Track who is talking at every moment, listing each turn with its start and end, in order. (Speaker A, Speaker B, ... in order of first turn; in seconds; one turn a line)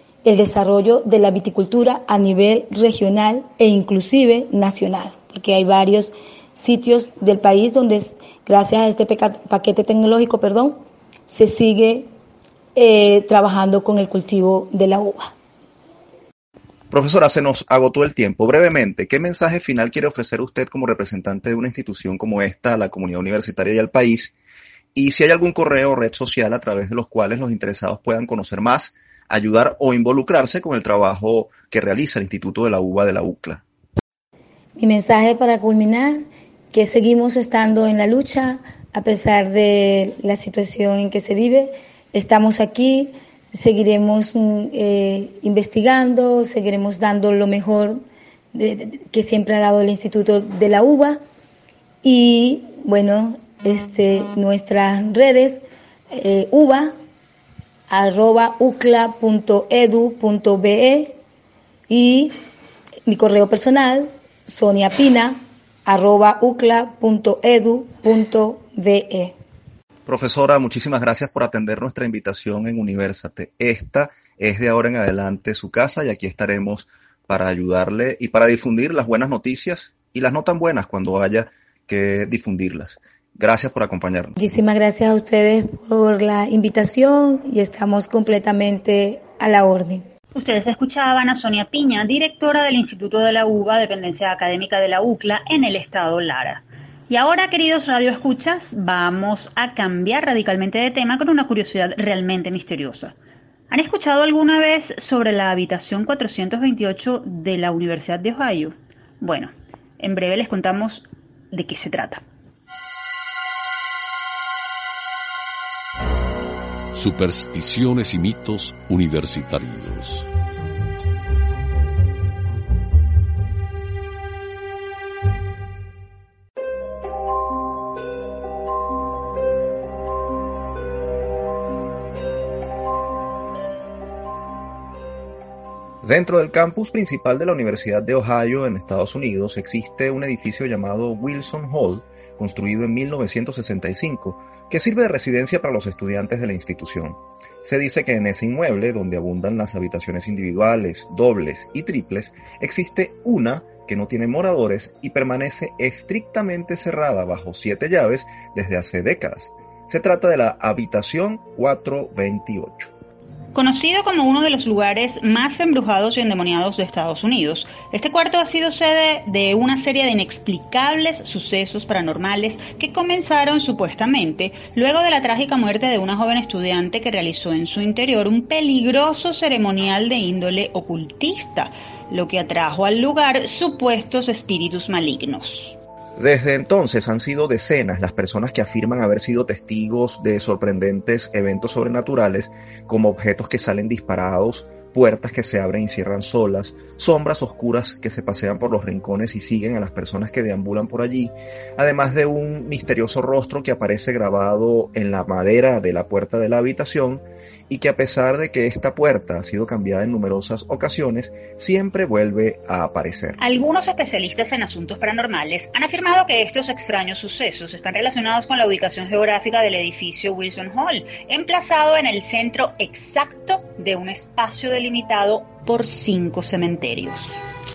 Speaker A: 0.2-12.1
Speaker A: 12.8-15.3
Speaker B: 16.9-24.3
Speaker B: 24.9-33.6
Speaker A: 34.8-48.0
Speaker A: 48.5-51.2
Speaker A: 52.0-57.0
Speaker A: 57.9-61.2
Speaker A: 61.9-62.4
Speaker A: 63.1-69.3
Speaker B: 70.1-84.4
Speaker A: 84.4-90.1
Speaker C: 90.3-103.2
Speaker C: 103.7-112.2
Speaker D: 116.9-120.3
Speaker B: 136.0-162.9
Speaker C: 163.5-185.8
Speaker B: 186.2-213.4
Speaker C: 213.4-227.3